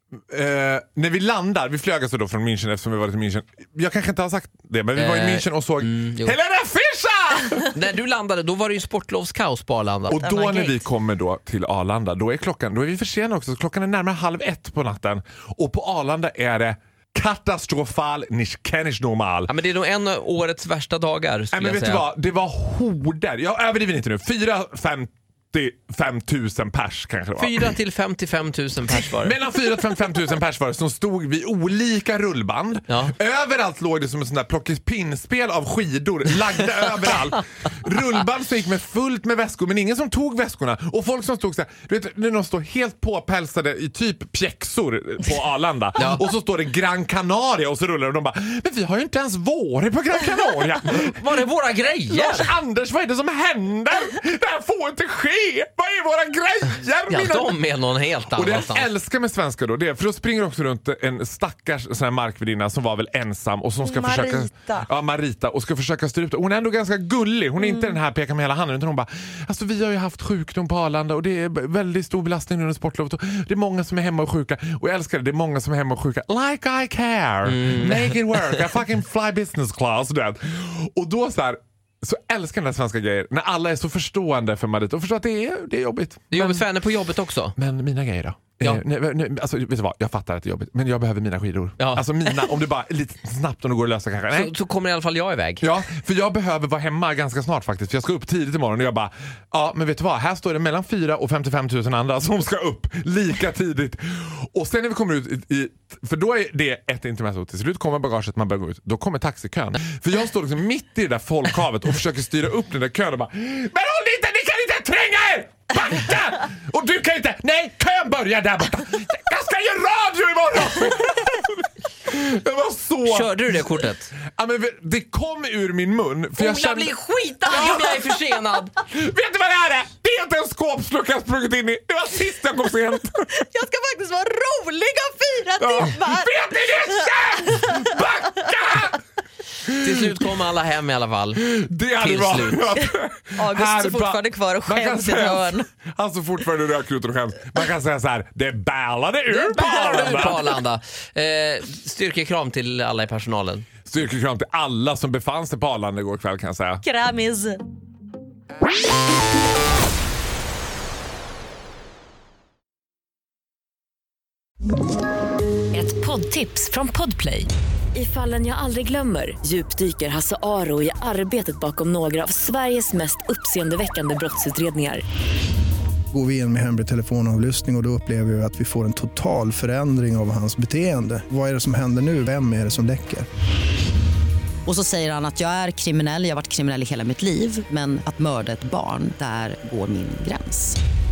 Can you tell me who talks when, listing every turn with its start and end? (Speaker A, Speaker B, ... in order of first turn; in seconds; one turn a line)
Speaker A: 0.3-7.7
Speaker B: 4.9-6.3
Speaker B: 7.7-10.2
Speaker A: 10.1-19.5
Speaker C: 10.1-10.8
Speaker B: 19.5-22.1
Speaker A: 21.5-27.7
Speaker B: 27.4-29.4
Speaker A: 28.9-51.4
Speaker B: 32.9-33.1
Speaker B: 46.0-46.2
Speaker B: 50.8-52.5
Speaker A: 52.1-57.5
Speaker B: 57.1-58.9
Speaker A: 58.3-86.7
Speaker C: 63.8-64.9
Speaker B: 77.4-78.2
Speaker B: 86.3-87.5
Speaker A: 87.6-94.5
Speaker B: 91.8-92.4
Speaker B: 94.3-95.7
Speaker A: 95.6-128.2
Speaker B: 123.0-124.1
Speaker B: 126.4-128.7
Speaker A: 128.8-133.3
Speaker C: 133.4-137.9
Speaker A: 135.6-139.0
Speaker A: 139.6-140.2
Speaker B: 139.8-141.4
Speaker A: 141.4-150.5
Speaker B: 142.0-142.7
Speaker C: 142.7-145.7
Speaker B: 149.3-153.7
Speaker A: 153.8-156.8
Speaker C: 156.8-157.6
Speaker D: 165.7-175.0
Speaker E: 176.1-183.2
Speaker F: 184.6-190.8